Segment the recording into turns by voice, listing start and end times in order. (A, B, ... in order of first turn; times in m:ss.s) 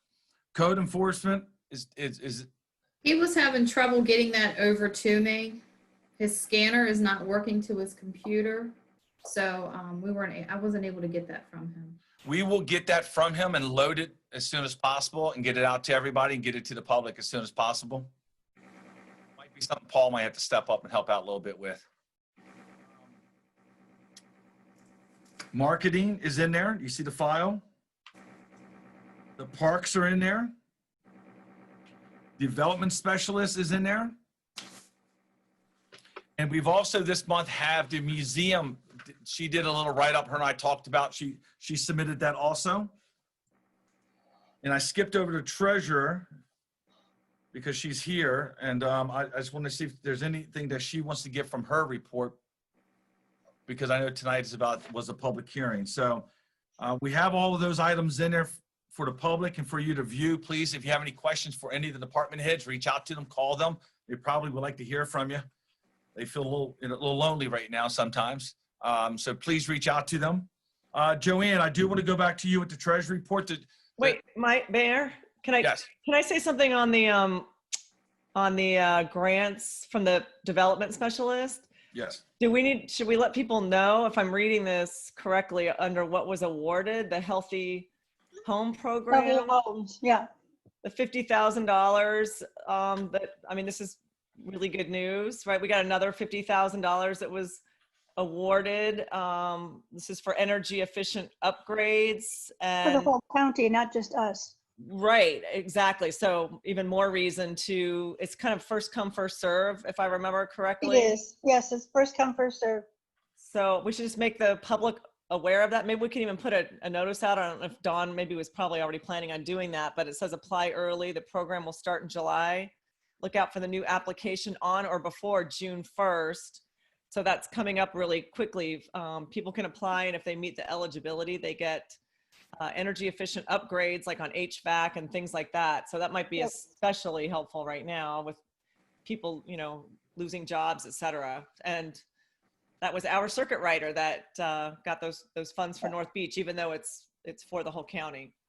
0:00.5-0:02.5 A
0:03.0-0:05.6 B
0:06.2-0:12.0 B
0:12.2-0:18.1 A
0:19.4-0:21.9 A
0:25.5-0:27.6 A
0:29.4-0:30.5 A
0:32.4-0:34.1 A
0:36.4-0:42.9 A
0:44.6-0:46.3 A
0:47.5-0:52.4 A
0:53.7-0:56.3 A
0:56.8-1:05.4 A
1:06.2-1:14.2 A
1:14.0-1:17.5 C
1:18.4-1:21.7 C
1:21.9-1:22.2 A
1:22.4-1:27.9 C
1:28.5-1:29.6 C
1:29.1-1:30.3 D
1:30.8-1:37.6 C
1:38.2-1:43.1 C
1:42.8-1:44.6 D
1:44.8-1:51.2 C
1:50.8-1:52.8 D
1:53.4-2:12.0 C
2:12.6-2:18.4 C
2:19.0-2:22.0 C
2:22.8-2:28.3 C